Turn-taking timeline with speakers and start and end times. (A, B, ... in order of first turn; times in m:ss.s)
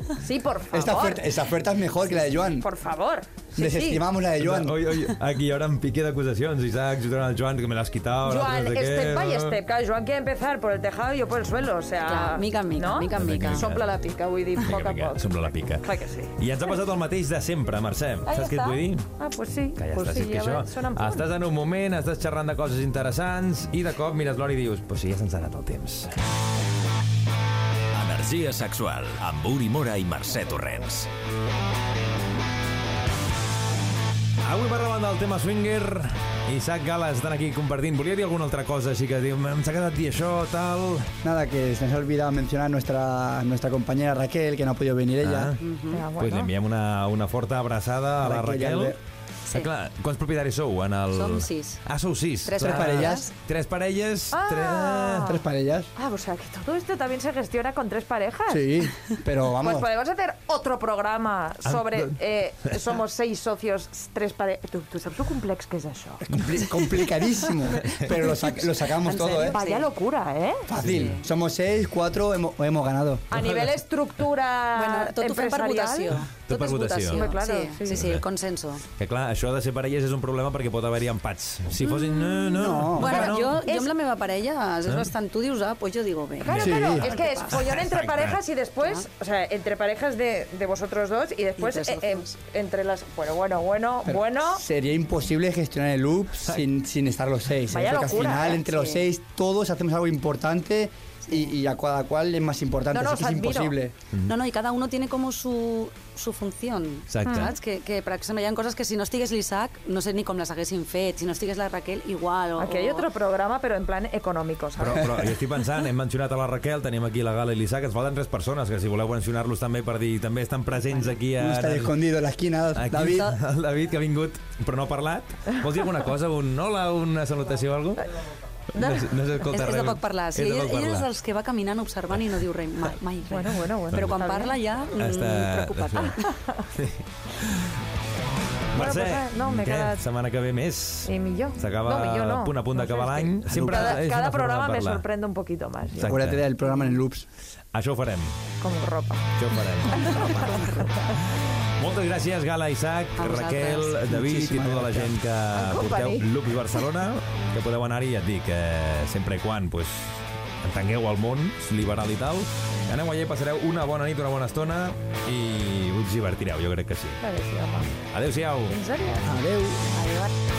0:00.2-0:01.3 A
0:00.7-0:02.7 B
0:02.4-0:04.0 A
0:03.6-0:04.9 B
0:04.4-0:09.6 C
0:08.2-0:16.3 A
0:12.0-0:13.7 D
0:13.2-0:13.9 C
0:14.6-0:19.1 C
0:18.2-0:21.2 A
0:19.8-0:26.1 C
0:27.9-0:31.1 E
0:34.4-0:41.1 C
0:41.2-0:45.6 B
0:45.2-0:45.6 C
0:45.6-0:46.1 D
0:45.9-0:46.5 A
0:46.2-0:49.0 C
0:48.2-0:49.0 B
0:49.5-0:55.4 C
0:51.1-0:51.8 D
0:52.4-0:53.3 D
0:52.6-0:53.3 B
0:54.3-0:55.4 A
0:55.2-0:55.9 B
0:56.0-0:58.9 A
0:58.5-0:59.9 B
0:59.6-1:06.6 A
1:01.6-1:02.1 C
1:06.2-1:09.6 B
1:07.7-1:08.1 D
1:08.8-1:09.9 D
1:09.4-1:10.7 A
1:10.7-1:13.3 B
1:10.8-1:11.3 D
1:13.3-1:16.2 A
1:13.3-1:13.7 C
1:14.7-1:18.8 D
1:16.4-1:17.3 C
1:17.1-1:18.1 A
1:17.9-1:18.2 C
1:19.0-1:23.6 C
1:21.9-1:27.8 D
1:22.5-1:23.3 B
1:23.1-1:23.9 A
1:24.8-1:25.1 C
1:26.4-1:34.6 A
1:26.5-1:28.4 C
1:26.6-1:27.0 B
1:31.6-1:32.4 D
1:34.0-1:43.9 B
1:37.7-1:38.6 A
1:38.3-1:39.1 D
1:42.9-1:43.8 A
1:44.2-1:53.1 D
1:47.1-1:47.6 C
1:47.2-1:47.6 A
1:52.6-1:55.3 A
1:54.8-2:02.0 C
2:01.4-2:03.3 B
2:02.7-2:08.1 C
2:03.0-2:03.4 D
2:08.7-2:11.1 C
2:08.7-2:09.1 A
2:09.4-2:16.2 D
2:13.3-2:14.6 A
2:13.9-2:14.2 C
2:14.9-2:17.8 C
2:16.0-2:16.7 A
2:18.7-2:25.0 C
2:18.7-2:20.0 A
2:21.0-2:26.2 A
2:23.5-2:23.8 B
2:25.9-2:26.4 C
2:26.0-2:27.2 B
2:27.7-2:28.4 C
2:28.6-2:29.3 A
2:29.3-2:47.2 C
2:29.9-2:31.1 A
2:33.2-2:34.0 D
2:34.1-2:35.1 B
2:35.5-2:36.2 A
2:47.2-2:47.9 A
2:48.1-2:48.8 C
2:48.7-2:49.3 A
2:49.2-2:49.9 B
2:49.9-2:50.3 A